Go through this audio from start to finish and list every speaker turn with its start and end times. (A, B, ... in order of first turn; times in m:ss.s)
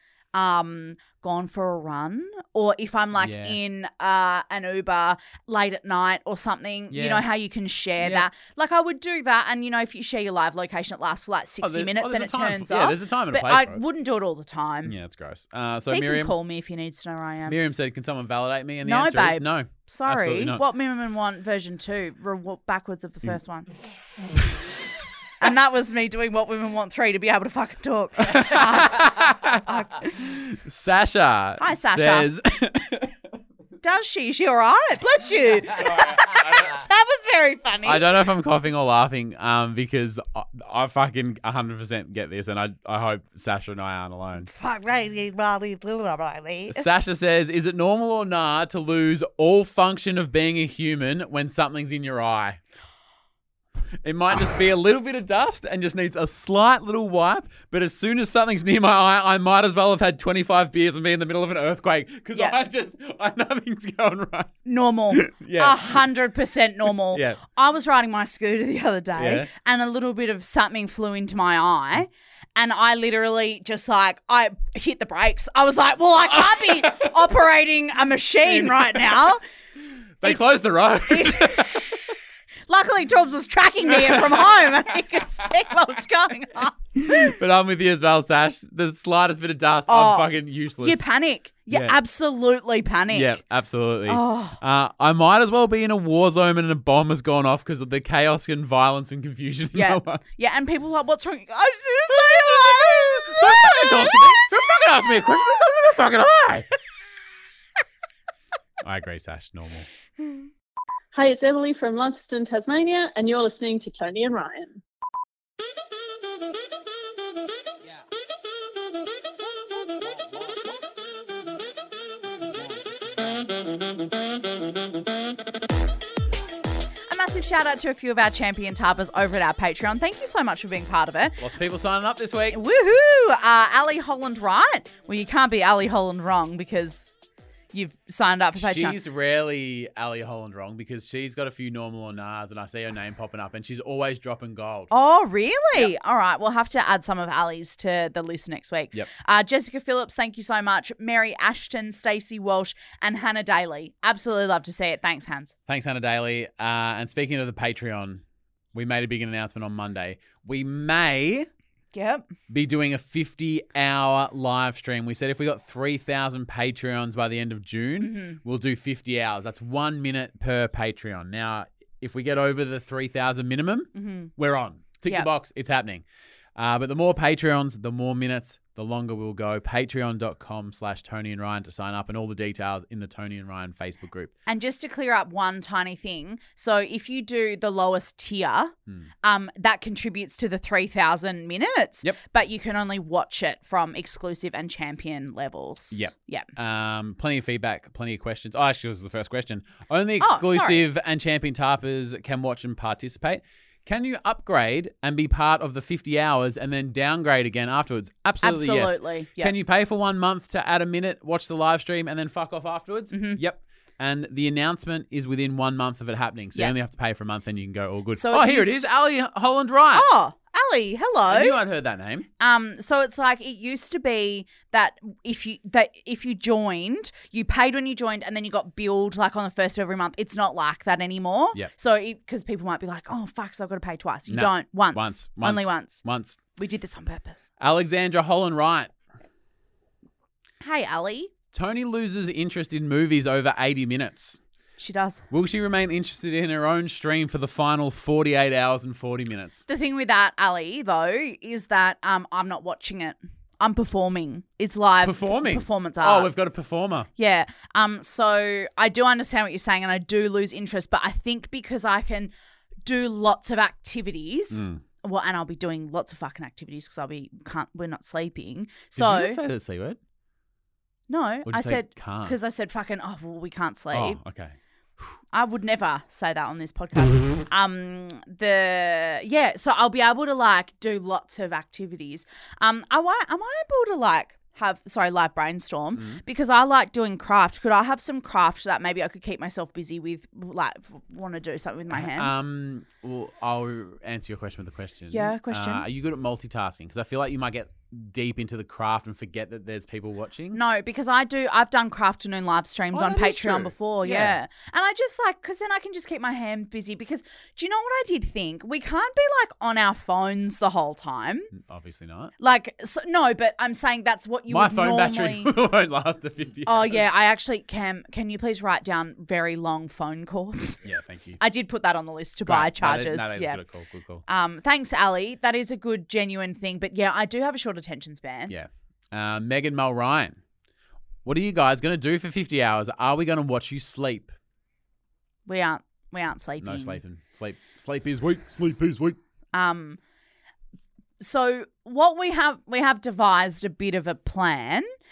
0:00.3-0:14.9 A
0:03.2-0:03.6 B
0:06.9-0:07.2 B
0:08.0-0:08.3 B
0:11.6-0:13.8 B
0:14.8-0:16.3 B
0:15.9-0:17.6 A
0:17.5-0:20.6 B
0:18.8-0:23.7 A
0:25.4-0:30.2 A
0:28.2-0:33.1 B
0:31.6-0:32.3 A
0:33.8-0:38.2 A
0:35.8-0:36.7 B
0:37.8-0:44.5 B
0:44.4-0:46.8 A
0:46.7-0:52.6 B
0:54.0-1:04.5 B
1:04.6-1:19.4 A
1:05.1-1:06.0 B
1:07.1-1:07.4 B
1:09.2-1:09.5 B
1:16.3-1:17.1 B
1:18.4-1:19.0 B
1:20.2-1:22.1 B
1:21.0-1:22.0 A
1:22.7-1:27.3 A
1:24.0-1:24.4 B
1:27.0-1:31.0 B
1:29.9-1:30.3 A
1:30.8-1:33.4 A
1:31.7-1:32.0 B
1:33.1-1:40.2 B
1:34.1-1:34.6 A
1:39.7-1:44.4 A
1:42.1-1:46.7 B
1:48.8-1:49.9 B
1:51.1-1:54.8 C
2:07.1-2:11.4 A
2:11.4-2:12.6 B
2:12.5-2:17.1 A
2:17.7-2:19.0 A
2:18.6-2:24.9 B
2:24.9-2:35.5 A
2:35.7-2:38.2 B
2:38.7-2:41.5 B
2:41.9-2:42.3 A
2:42.5-2:56.0 B
2:48.0-2:48.4 A
2:53.9-2:54.3 A
2:56.6-3:04.3 B
3:04.5-3:16.5 A
3:15.9-3:40.1 B
3:20.2-3:20.8 A
3:28.4-3:29.5 A
3:33.1-3:33.4 A
3:38.2-3:38.8 A
3:39.9-3:41.6 A
3:41.3-3:42.3 B
3:42.4-3:56.0 A
3:54.3-3:56.4 B
3:56.6-3:57.4 A
3:57.6-3:58.9 B
4:00.6-4:01.3 A
4:01.5-4:04.4 B
4:04.8-4:05.2 A
4:05.3-4:09.6 B
4:09.7-4:16.3 A
4:15.0-4:17.1 B
4:17.2-4:22.3 A
4:22.8-4:29.4 A
4:24.5-4:24.8 B
4:29.0-4:30.0 B
4:31.1-4:34.2 A
4:31.4-4:32.4 B
4:33.9-4:35.1 B
4:35.3-4:52.4 A
4:45.9-4:46.2 B
4:51.9-5:00.6 B
4:55.1-4:55.8 A
5:00.5-5:11.5 A
5:02.9-5:04.4 B
5:11.5-5:12.3 B
5:12.4-5:15.5 A
5:14.5-5:17.0 B
5:16.6-5:20.8 A
5:20.8-5:21.4 B
5:21.4-5:23.6 A
5:22.4-5:24.2 B
5:24.3-5:28.5 A
5:28.5-5:30.4 B
5:31.2-5:34.3 B
5:35.4-5:37.0 A
5:36.6-5:39.2 B
5:39.5-5:40.0 A
5:41.2-5:44.9 A